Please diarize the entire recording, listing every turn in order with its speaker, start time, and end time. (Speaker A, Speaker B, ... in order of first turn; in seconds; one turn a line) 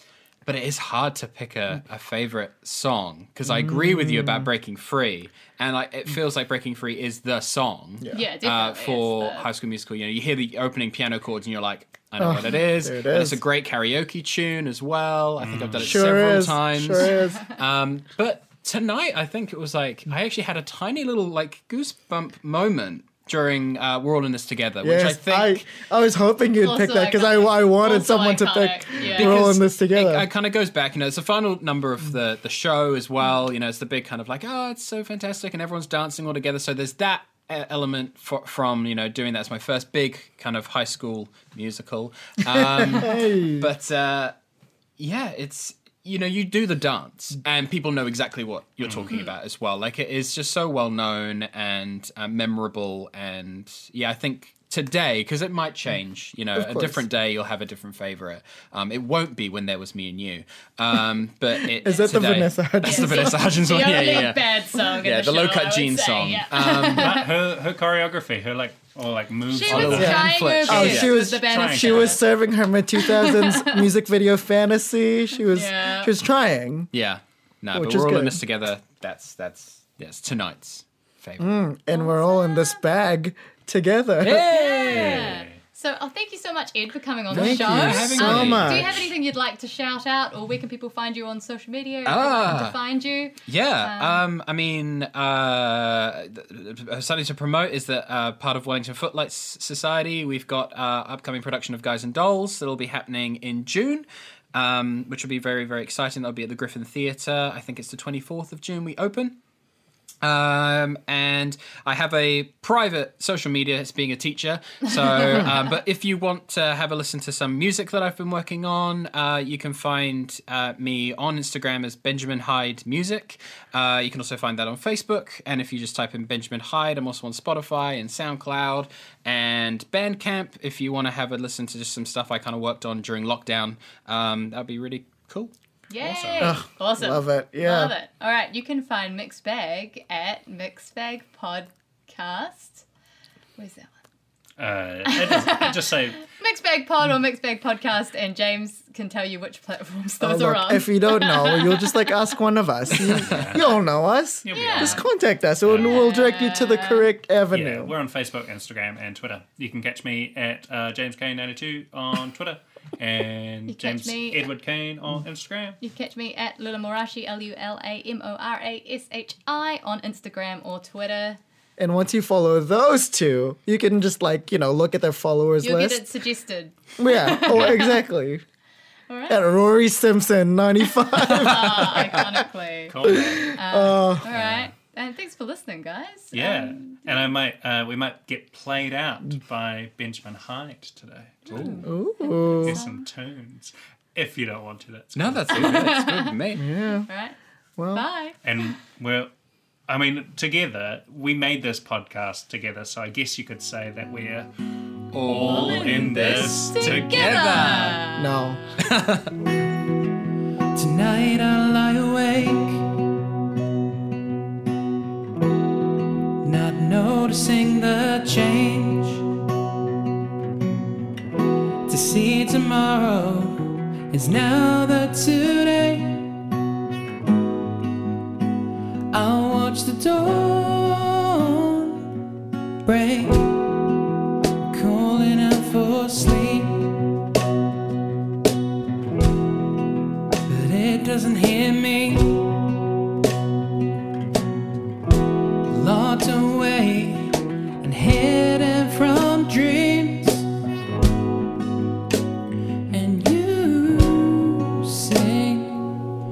Speaker A: 0.5-25.6
Speaker B: 3.5-4.5
Speaker C: 8.1-9.5
Speaker B: 12.2-13.4
Speaker D: 15.4-16.1
Speaker B: 15.8-17.4
Speaker B: 24.8-30.3
Speaker C: 26.6-29.4
Speaker A: 29.0-44.4
Speaker B: 42.5-43.7
Speaker A: 45.0-67.2
Speaker D: 48.8-49.1
Speaker C: 49.1-49.4
Speaker B: 56.5-57.0
Speaker B: 61.7-63.4
Speaker C: 61.8-62.3
Speaker C: 62.8-67.3
Speaker D: 66.8-72.2
Speaker C: 69.5-72.2
Speaker A: 69.7-71.2
Speaker B: 69.9-76.9
Speaker C: 72.9-73.9
Speaker C: 75.5-76.1
Speaker A: 76.9-81.5
Speaker B: 77.7-78.4
Speaker B: 81.4-85.0
Speaker C: 81.9-82.8
Speaker A: 84.2-85.4
Speaker C: 84.3-94.2
Speaker D: 84.9-85.5
Speaker B: 87.3-89.0
Speaker A: 87.3-89.1
Speaker A: 92.0-92.8
Speaker A: 93.4-109.4
Speaker A: 110.2-136.5
Speaker C: 135.9-142.8
Speaker D: 136.1-136.6
Speaker B: 136.4-137.9
Speaker C: 143.6-143.9
Speaker D: 144.6-146.2
Speaker C: 145.1-152.1
Speaker B: 150.2-157.9
Speaker D: 153.0-153.8
Speaker A: 153.2-153.5
Speaker D: 154.4-155.0
Speaker C: 154.5-155.0
Speaker D: 155.7-156.0
Speaker C: 155.8-157.1
Speaker D: 157.5-165.8
Speaker C: 163.7-164.5
Speaker C: 165.8-171.4
Speaker B: 171.8-176.1
Speaker C: 175.6-178.0
Speaker B: 177.0-178.4
Speaker C: 179.1-179.5
Speaker B: 179.3-182.4
Speaker C: 181.2-187.3
Speaker D: 182.9-183.6
Speaker B: 183.0-184.3
Speaker D: 184.2-184.7
Speaker D: 186.3-191.8
Speaker C: 191.5-193.0
Speaker A: 191.5-191.8
Speaker B: 191.8-192.8
Speaker D: 192.5-195.9
Speaker A: 195.1-196.7
Speaker C: 195.5-196.4
Speaker B: 196.6-197.1
Speaker C: 197.0-197.3
Speaker B: 197.8-198.0
Speaker C: 197.9-198.4
Speaker D: 198.4-199.3
Speaker D: 199.9-204.5
Speaker A: 205.1-208.0
Speaker D: 205.2-207.8
Speaker C: 205.4-208.3
Speaker B: 208.2-208.6
Speaker A: 208.8-209.3
Speaker A: 210.7-212.8
Speaker A: 216.4-219.2
Speaker A: 221.9-226.3
Speaker A: 229.1-232.1
Speaker A: 232.8-233.7
Speaker A: 234.7-236.9
Speaker A: 240.4-242.5
Speaker A: 245.7-250.5
Speaker A: 252.9-256.0